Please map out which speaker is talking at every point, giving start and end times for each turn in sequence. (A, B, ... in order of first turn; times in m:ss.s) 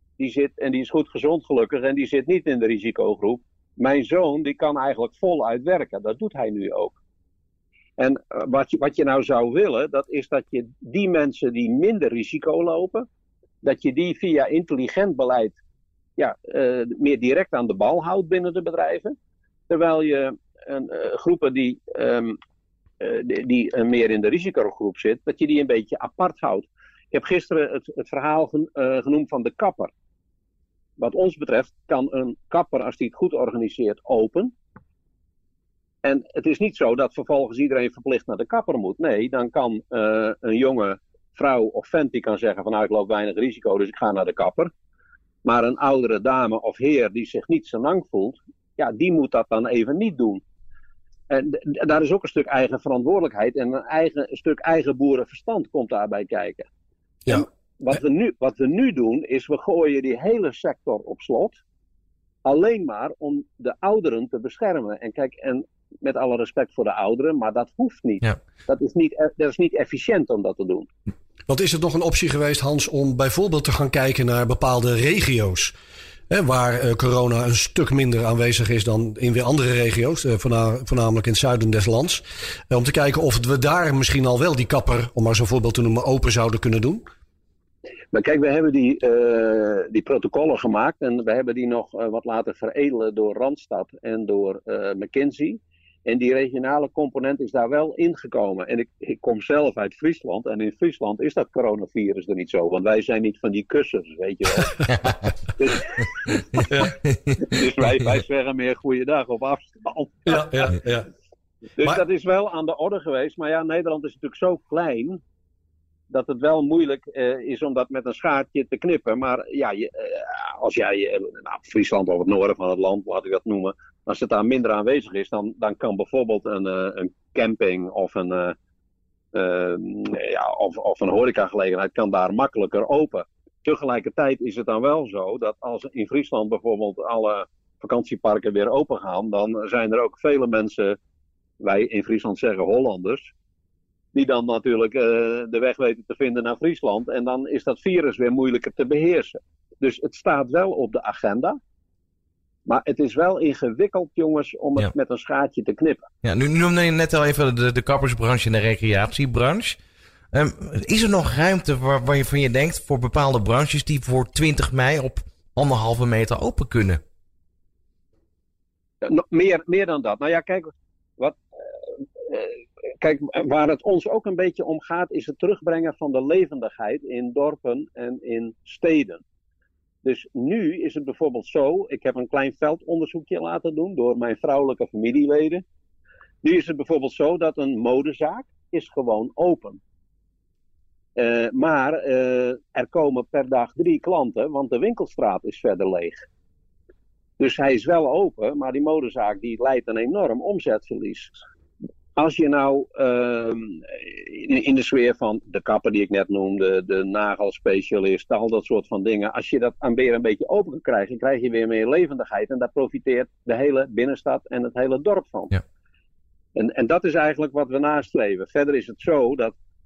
0:00.2-0:07.0 A
0:08.0-0:13.1 A
0:13.6-0:15.6 A
0:16.2-0:19.2 A
0:19.7-0:22.4 A
0:23.0-0:29.9 A
0:31.0-0:34.5 A
0:36.0-0:44.7 A
0:45.4-0:50.4 A
0:51.3-0:56.7 A
0:57.3-1:01.6 A
1:02.4-1:10.9 A
1:11.5-1:15.7 B
1:16.3-1:27.1 B
1:28.1-1:46.7 A
1:46.7-1:47.0 B
1:47.4-1:50.7 A
1:50.3-1:51.1 B
1:51.8-1:55.2 A
1:56.1-2:08.6 A
2:09.3-2:21.0 A
2:21.6-2:23.3 A
2:24.1-2:31.6 A
2:32.7-2:36.1 A
2:36.2-2:39.8 C
2:40.3-2:47.0 C
2:49.0-2:59.2 A
3:00.0-3:05.6 A
3:06.4-3:09.8 A
3:11.2-3:16.2 A
3:17.4-3:21.4 A
3:22.2-3:35.6 A
3:36.6-3:39.6 A